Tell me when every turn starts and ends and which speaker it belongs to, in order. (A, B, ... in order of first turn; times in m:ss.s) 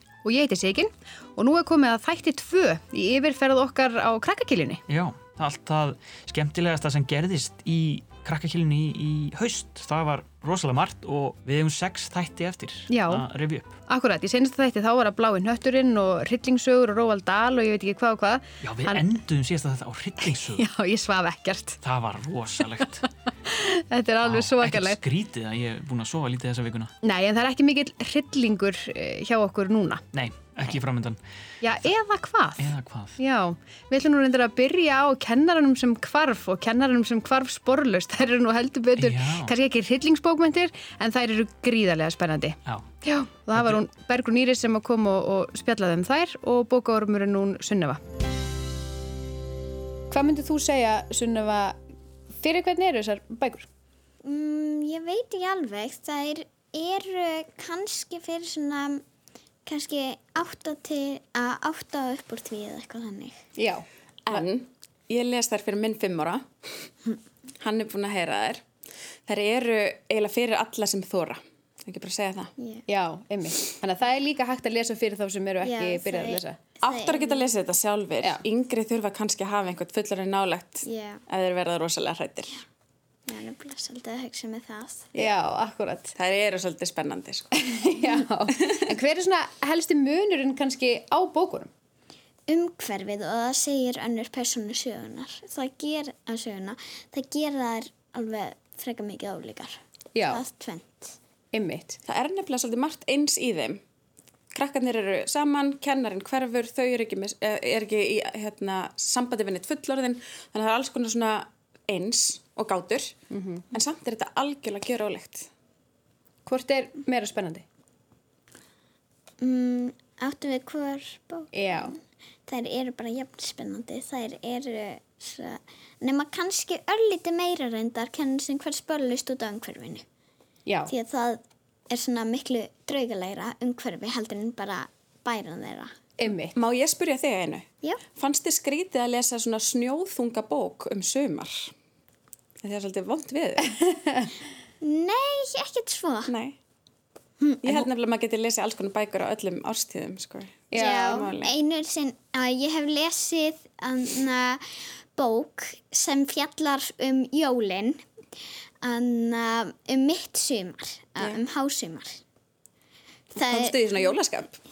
0:00.2-0:04.8 A
0:04.9-0:13.8 B
0:12.9-0:13.2 A
0:13.9-0:19.1 A
0:18.6-0:20.7 B
0:20.3-0:21.8 A
0:21.8-0:23.1 B
0:23.4-0:25.0 A
0:24.2-0:26.9 B
0:27.0-0:30.0 A
0:30.1-0:31.2 B
0:31.6-0:32.7 A
0:32.6-0:33.2 B
0:33.2-0:48.0 A
0:39.0-0:39.5 B
0:43.5-0:43.8 B
0:50.1-0:51.8 A
0:52.4-0:53.7 A
0:54.2-0:59.0 C
0:59.7-1:03.4 C
1:03.6-1:04.5 A
1:04.3-1:06.5 D
1:07.6-1:08.6 D
1:09.3-1:12.5 D
1:12.9-1:16.6 A
1:15.6-1:17.5 C
1:16.9-1:20.8 D
1:20.8-1:21.2 C
1:21.3-1:22.6 D
1:23.3-1:25.1 C
1:25.2-1:26.2 A
1:26.2-1:27.5 D
1:27.5-1:31.7 A
1:32.5-1:39.8 C
1:40.1-1:40.4 A
1:40.3-1:41.1 C
1:41.5-1:42.0 A
1:42.0-1:43.8 D
1:44.5-1:53.2 D
1:53.3-1:53.6 A
1:53.7-1:55.5 D
1:56.5-1:57.6 A
1:59.4-2:01.9 C
2:01.5-2:01.9 A
2:02.5-2:10.0 C
2:10.7-2:10.9 A
2:10.9-2:15.9 C
2:16.2-2:16.6 A
2:16.5-2:21.7 D
2:22.6-2:23.8 D
2:24.8-2:26.4 C
2:27.4-2:27.9 C
2:27.6-2:31.5 D
2:30.7-2:31.3 A
2:30.8-2:34.6 C
2:35.2-2:38.0 C
2:38.8-2:42.2 C
2:43.4-2:44.6 D
2:43.4-2:44.0 C